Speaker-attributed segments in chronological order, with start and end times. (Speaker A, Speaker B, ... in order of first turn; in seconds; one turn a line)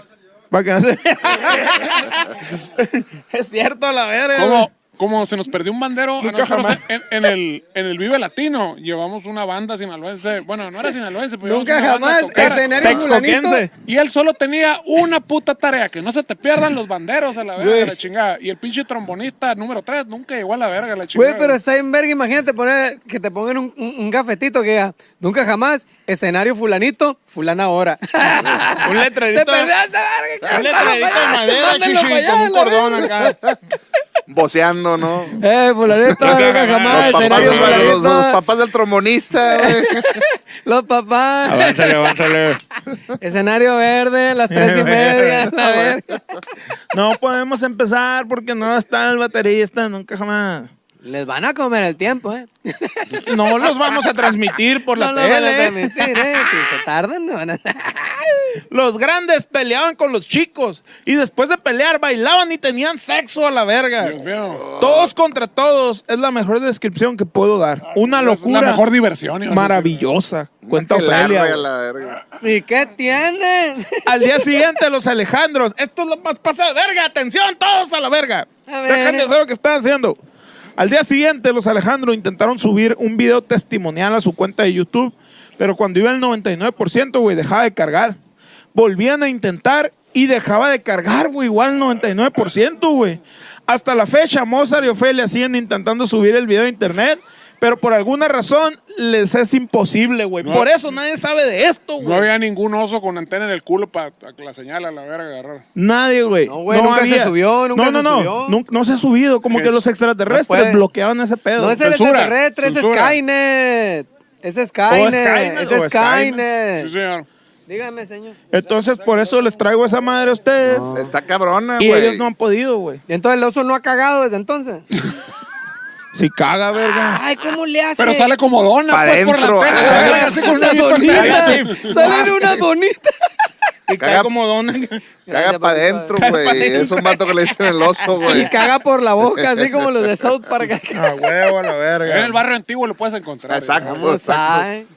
Speaker A: 0.5-4.7
Speaker B: 4.3-13.1
Speaker A: 6.2-6.8
Speaker C: 11.4-13.7
Speaker A: 12.3-13.7
Speaker B: 13.9-21.6
Speaker C: 17.6-17.9
Speaker C: 21.1-33.1
Speaker A: 28.8-29.7
Speaker A: 30.5-33.5
Speaker D: 34.3-35.4
Speaker C: 35.4-38.4
Speaker A: 36.2-38.0
Speaker D: 36.2-40.2
Speaker C: 39.5-42.3
Speaker A: 41.5-42.6
Speaker C: 43.2-46.4
Speaker A: 44.5-45.5
Speaker D: 45.5-46.0
Speaker A: 46.9-50.7
Speaker C: 51.0-54.3
Speaker A: 53.2-56.4
Speaker C: 54.9-58.6
Speaker A: 58.7-64.2
Speaker B: 64.0-64.8
Speaker D: 64.5-65.1
Speaker A: 64.8-68.8
Speaker B: 67.9-70.1
Speaker A: 69.5-71.6
Speaker D: 70.6-72.2
Speaker C: 72.4-74.6
Speaker A: 74.1-80.2
Speaker C: 78.7-79.3
Speaker A: 80.8-88.2
Speaker A: 88.7-102.3
Speaker B: 100.4-100.7
Speaker B: 102.0-105.6
Speaker A: 105.8-111.8
Speaker C: 106.5-108.6
Speaker B: 109.5-109.8
Speaker C: 110.3-110.8
Speaker C: 111.6-116.9
Speaker B: 111.8-113.2
Speaker A: 114.9-116.4
Speaker B: 116.8-117.3
Speaker C: 117.7-118.4
Speaker A: 118.5-120.9
Speaker C: 120.7-121.1
Speaker D: 120.9-122.3
Speaker A: 121.8-123.0
Speaker C: 123.1-124.8
Speaker A: 126.1-127.2
Speaker C: 127.0-128.3
Speaker B: 128.0-132.2
Speaker D: 128.9-130.3
Speaker C: 129.8-133.2
Speaker A: 129.8-132.6
Speaker A: 133.9-135.1
Speaker D: 134.0-134.3
Speaker C: 135.3-136.2
Speaker D: 135.3-138.6
Speaker A: 136.2-138.5
Speaker C: 138.2-141.3
Speaker D: 139.2-140.3
Speaker A: 140.9-142.4
Speaker B: 142.0-144.0
Speaker D: 143.5-144.7
Speaker C: 143.8-144.9